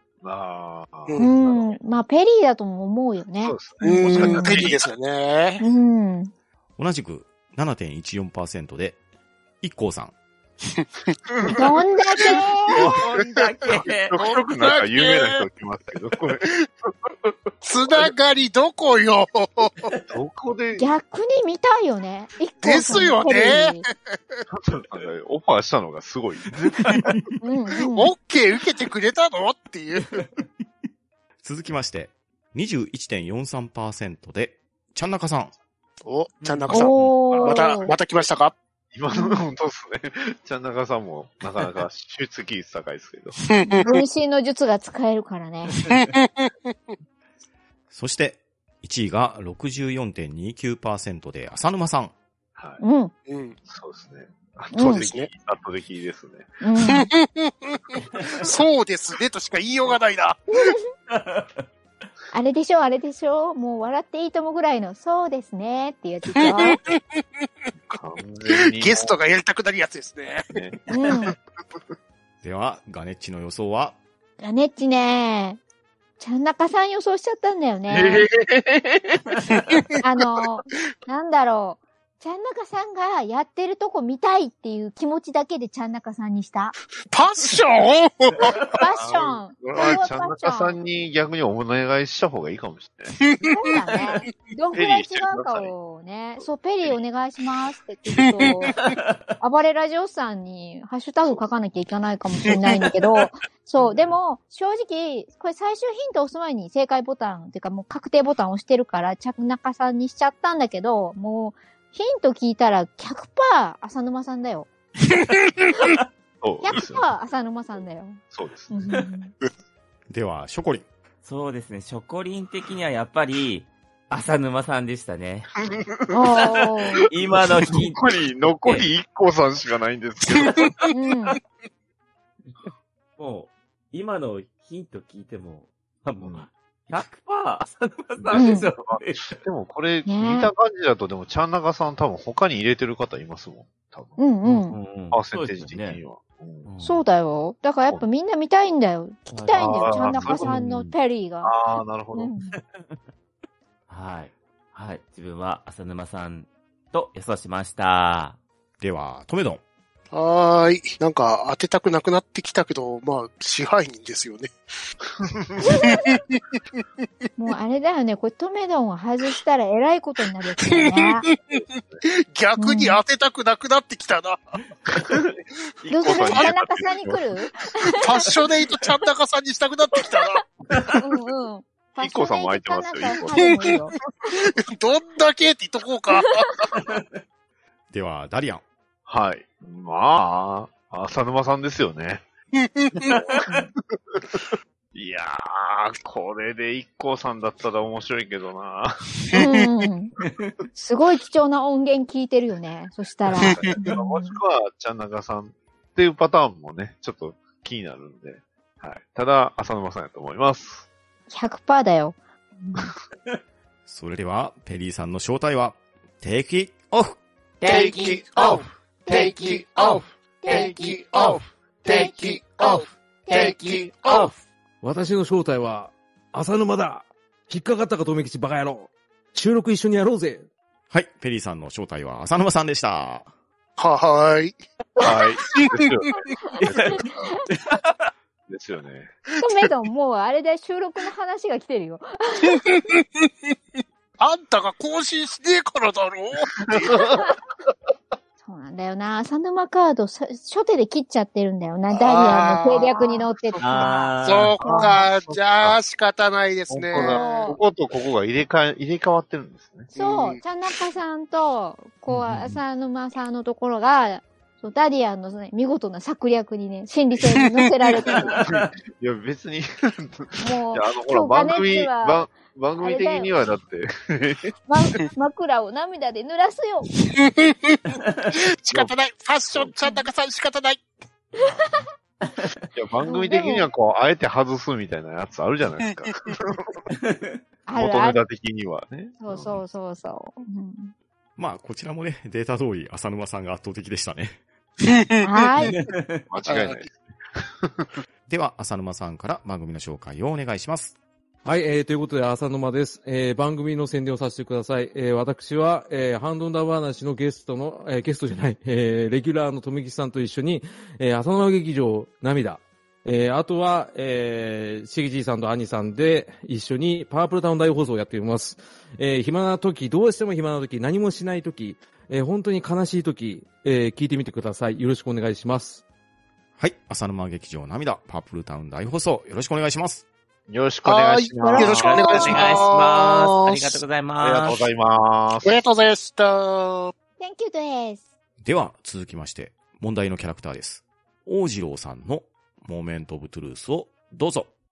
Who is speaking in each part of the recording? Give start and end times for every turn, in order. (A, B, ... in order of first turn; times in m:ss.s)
0:00.2-0:01.8 A
0:01.2-0:04.6 B
0:03.4-0:04.8 A
0:03.8-0:05.6 C
0:05.6-0:06.3 B
0:06.8-0:09.0 D
0:09.6-0:10.1 D
0:11.5-0:12.8 B
0:12.7-0:14.1 E
0:14.1-0:17.3 A
0:14.2-0:15.4 C
0:17.6-0:19.7 C
0:20.1-0:20.9 A
0:20.8-0:23.9 B
0:22.6-0:23.8 C
0:24.5-0:27.0 A
0:27.4-0:28.1 B
0:27.8-0:30.2 C
0:31.4-0:35.5 D
0:36.0-0:38.5 C
0:36.4-0:37.1 E
0:36.7-0:37.9 B
0:38.9-0:43.3 A
0:39.1-0:39.4 B
0:43.4-0:43.9 C
0:43.7-0:45.8 B
0:47.9-0:52.1 D
0:52.8-0:53.1 B
0:53.3-0:53.6 C
0:53.6-0:56.6 A
0:54.7-0:55.1 B
0:54.8-0:55.3 C
0:56.6-0:57.1 B
0:56.8-0:57.5 C
0:58.4-1:00.4 C
1:01.1-1:01.6 E
1:02.3-1:06.8 B
1:06.4-1:07.0 C
1:07.9-1:09.2 A
1:08.5-1:10.5 C
1:10.5-1:10.8 A
1:10.9-1:11.3 B
1:12.4-1:14.0 D
1:14.4-1:15.6 B
1:16.2-1:18.3 B
1:17.9-1:18.2 A
1:20.0-1:26.7 B
1:27.1-1:28.5 C
1:28.8-1:30.8 B
1:29.0-1:33.1 A
1:33.1-1:33.5 C
1:33.5-1:38.8 B
1:34.7-1:35.7 A
1:38.3-1:38.5 C
1:38.8-1:39.2 E
1:39.4-1:54.7 B
1:56.4-1:57.1 A
1:56.6-1:59.3 B
1:58.3-1:58.8 A
2:00.1-2:00.9 D
2:01.2-2:05.5 E
2:06.1-2:07.1 B
2:07.1-2:08.9 E
2:07.3-2:10.6 A
2:10.9-2:11.4 B
2:13.2-2:19.4 E
2:16.2-2:16.5 A
2:18.2-2:24.2 A
2:18.3-2:18.7 B
2:20.1-2:20.5 B
2:24.2-2:24.8 B
2:24.5-2:26.0 E
2:25.1-2:26.7 A
2:26.7-2:27.0 E
2:26.8-2:31.5 B
2:29.3-2:31.0 E
2:29.5-2:30.6 A
2:31.4-2:32.3 A
2:32.1-2:32.5 B
2:33.9-2:38.4 E
2:38.8-2:39.6 D
2:40.1-2:44.5 C
2:45.7-2:46.0 B
2:45.8-2:46.2 C
2:47.4-2:51.2 B
2:50.7-2:54.4 C
2:52.6-2:53.0 B
2:54.9-2:57.2 A
2:55.9-2:58.0 B
2:56.1-2:56.5 C
2:57.9-3:00.4 C
3:01.0-3:03.9 B
3:02.0-3:03.6 A
3:03.4-3:03.7 C
3:04.8-3:06.4 C
3:07.9-3:08.6 D
3:09.1-3:12.3 A
3:12.6-3:13.1 C
3:13.1-3:13.6 A
3:14.9-3:19.0 A
3:19.3-3:20.1 B
3:20.8-3:24.4 B
3:23.4-3:30.9 A
3:23.4-3:23.7 C
3:31.3-3:32.9 B
3:33.9-3:37.2 D
3:37.6-3:44.3 F
3:40.4-3:41.0 B
3:41.9-3:42.2 B
3:43.3-3:43.6 B
3:44.8-3:50.5 G
3:50.9-3:53.3 D
3:53.8-3:55.8 C
3:55.0-3:57.0 A
3:56.9-3:57.3 B
3:58.5-3:59.1 A
3:59.4-4:02.6 B
4:02.5-4:03.0 C
4:04.2-4:07.0 C
4:06.8-4:07.2 A
4:08.4-4:14.1 B
4:12.0-4:13.2 C
4:13.6-4:14.6 E
4:13.6-4:13.9 A
4:14.2-4:17.4 C
4:14.6-4:15.8 A
4:16.7-4:19.9 A
4:17.0-4:17.6 B
4:19.9-4:28.4 B
4:20.0-4:20.4 C
4:22.1-4:22.6 E
4:28.4-4:34.5 A
4:28.4-4:28.7 E
4:30.4-4:33.3 B
4:34.7-4:36.9 B
4:37.2-4:37.7 C
4:38.6-4:40.9 C
4:42.7-4:46.7 A
4:43.1-4:43.7 B
4:47.0-4:47.4 E
4:47.7-4:48.2 B
4:47.8-4:49.6 A
4:49.2-4:50.9 B
4:51.4-4:54.4 D
4:54.8-4:55.4 C
4:55.2-4:55.7 B
4:55.8-4:56.2 E
4:56.3-4:58.0 A
4:56.5-4:56.8 C
4:58.3-5:01.0 D
5:01.4-5:25.8 G
5:26.6-5:30.1 D
5:30.5-5:32.5 A
5:30.8-5:33.8 C
5:31.4-5:31.8 B
5:31.6-5:34.6 E
5:34.2-5:35.6 A
5:35.4-5:36.9 C
5:37.2-5:38.1 B
5:38.4-5:44.5 D